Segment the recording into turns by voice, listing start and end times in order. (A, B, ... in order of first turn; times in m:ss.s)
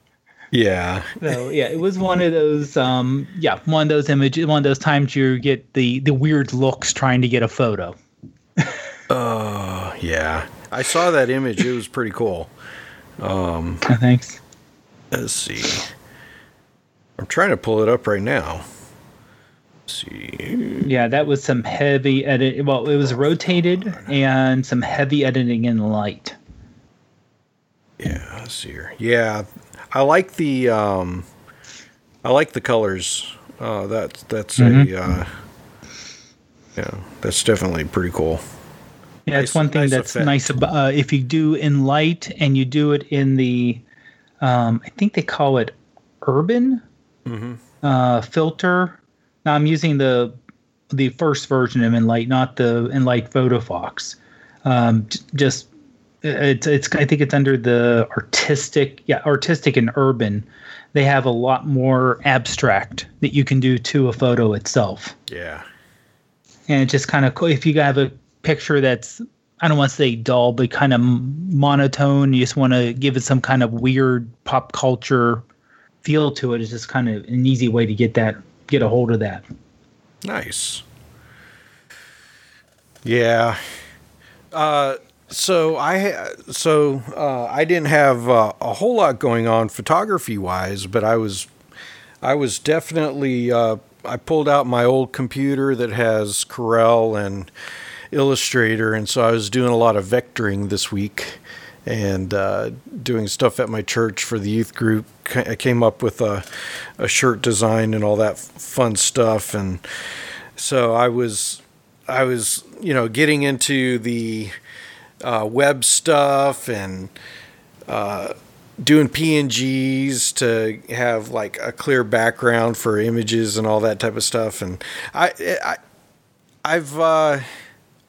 0:00.5-0:01.4 A
0:01.2-0:08.0 B
0:09.1-0:12.5 A
0:13.2-0:13.8 A
0:13.9-0:14.4 B
0:15.1-0:15.9 A
0:17.2-0:18.6 A
0:19.9-0:20.9 A
0:20.8-0:26.4 B
0:23.8-0:24.1 A
0:28.0-0:31.3 A
0:32.2-0:35.3 A
0:34.6-0:34.9 B
0:36.8-0:38.4 A
0:39.3-0:43.8 B
0:39.4-0:40.5 A
0:44.4-0:46.8 B
0:47.3-0:47.6 A
0:47.8-0:50.4 B
0:50.9-0:55.7 B
0:56.2-1:05.2 B
1:05.3-1:05.7 A
1:06.7-1:15.4 B
1:16.0-1:19.4 B
1:20.2-1:20.8 A
1:23.0-1:23.6 A
1:24.5-1:31.5 A
1:32.2-1:37.5 A
1:38.1-1:46.5 A
1:47.0-1:49.8 A
1:50.6-1:54.6 A
1:55.2-1:57.1 A
1:57.9-2:05.8 A
2:06.6-2:07.5 A